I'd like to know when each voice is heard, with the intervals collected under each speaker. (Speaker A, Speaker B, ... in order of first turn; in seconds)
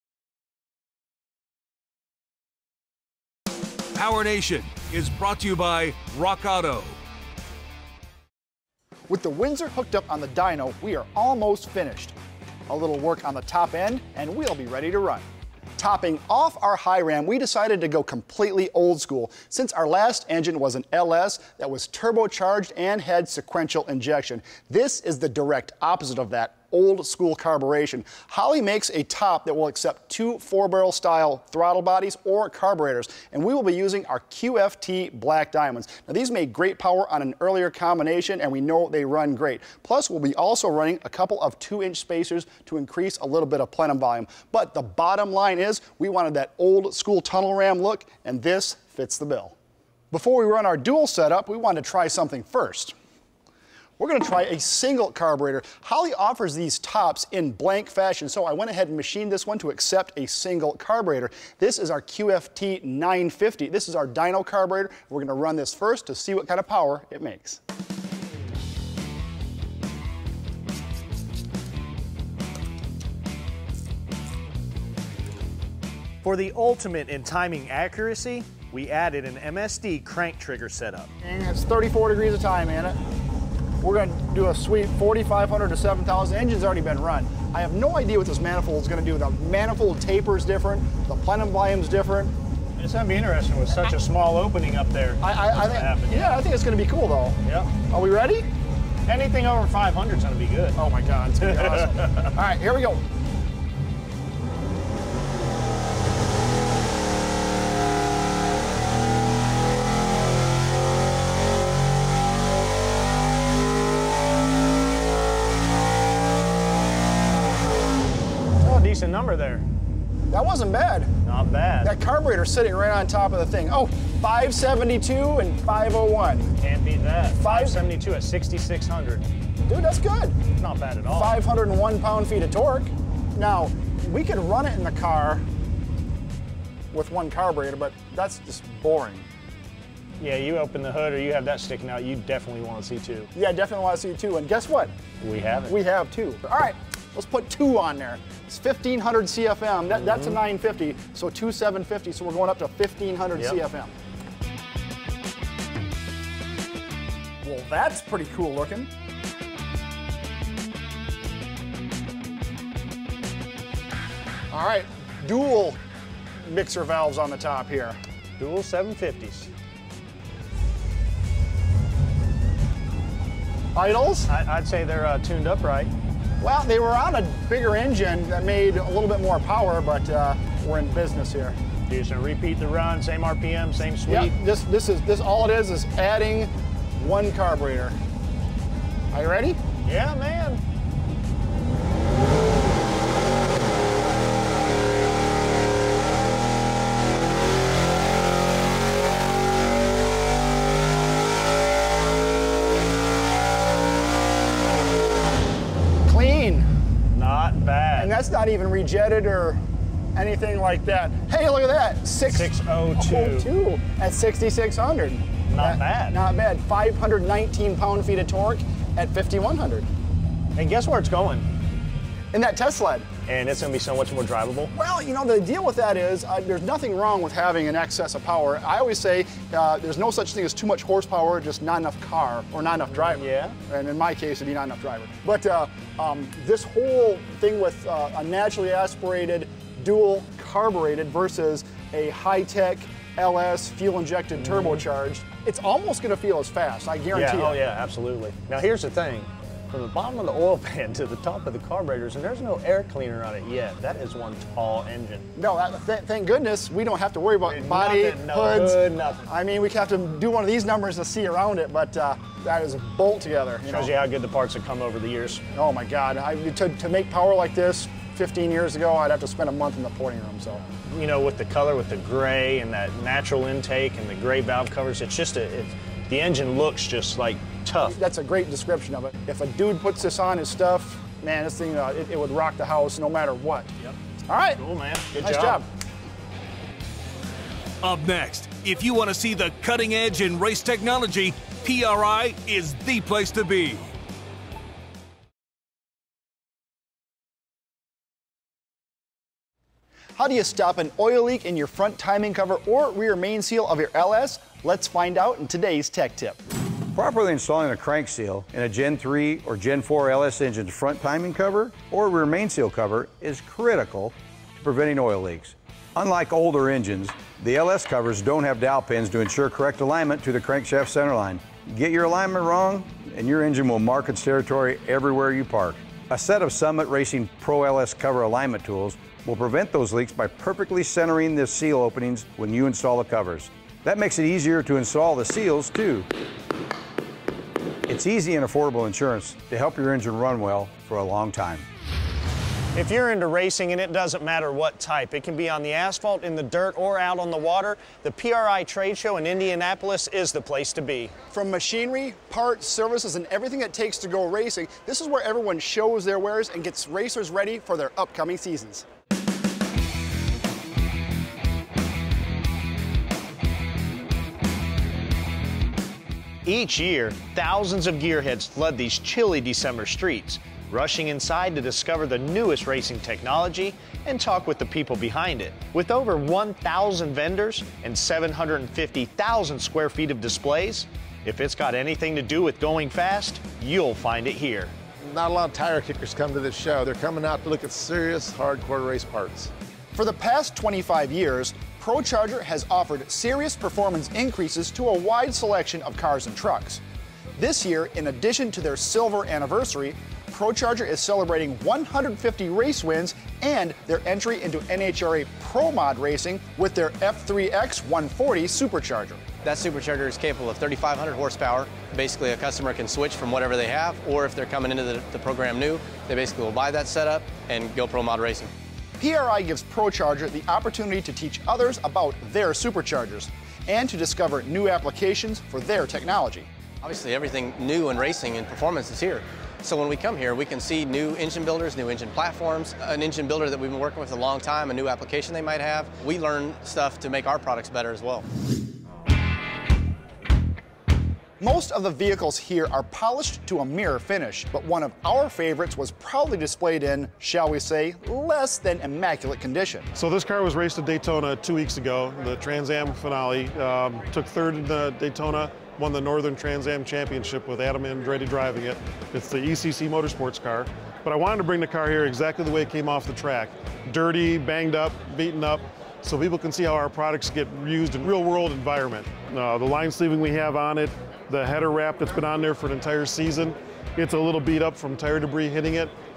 Speaker A: 3.9-7.0, 287.8-293.8
Speaker B: 9.1-12.2, 12.7-15.2, 15.8-49.5, 50.1-52.9, 54.0-67.6, 81.2-83.0, 83.8-92.3, 95.2-98.5, 100.8-103.0, 120.3-121.1, 121.8-126.5, 127.3-127.8, 129.7-130.4, 131.1-135.4, 136.9-139.2, 143.3-144.9, 145.7-153.9, 157.4-158.9, 164.5-165.8, 166.4-168.0, 173.8-174.3, 176.4-181.6, 184.1-187.9, 189.1-189.6, 206.1-206.7, 208.0-209.6, 210.1-219.9, 222.3-223.1, 224.7-247.6, 255.4-263.9, 265.5-270.6, 277.8-283.7, 284.3-284.6, 285.1-285.6, 300.2-306.4, 351.3-358.9, 389.9-396.8, 397.4-409.2, 419.0-426.5, 441.4-449.9
Speaker C: 76.2-81.1, 92.8-96.4, 97.4-97.8, 99.1-100.8, 101.4-102.2, 118.6-119.6, 121.2-121.9, 126.6-129.3, 130.6-131.4, 140.2-143.3, 145.2-145.8, 168.4-169.5, 174.2-175.9, 181.9-184.3, 189.8-190.6, 207.1-208.1, 212.3-213.5, 215.5-216.2, 220.5-221.5, 223.2-224.7, 233.1-233.6, 244.4-244.8, 247.1-255.3, 257.4-259.3, 263.6-265.4, 270.8-278.0, 284.6-285.6, 342.8-351.1, 366.4-384.7
Speaker D: 306.9-336.1, 337.9-341.6
Speaker E: 385.0-389.5
Speaker F: 409.4-418.5, 426.8-438.2
Speaker G: 450.0-475.9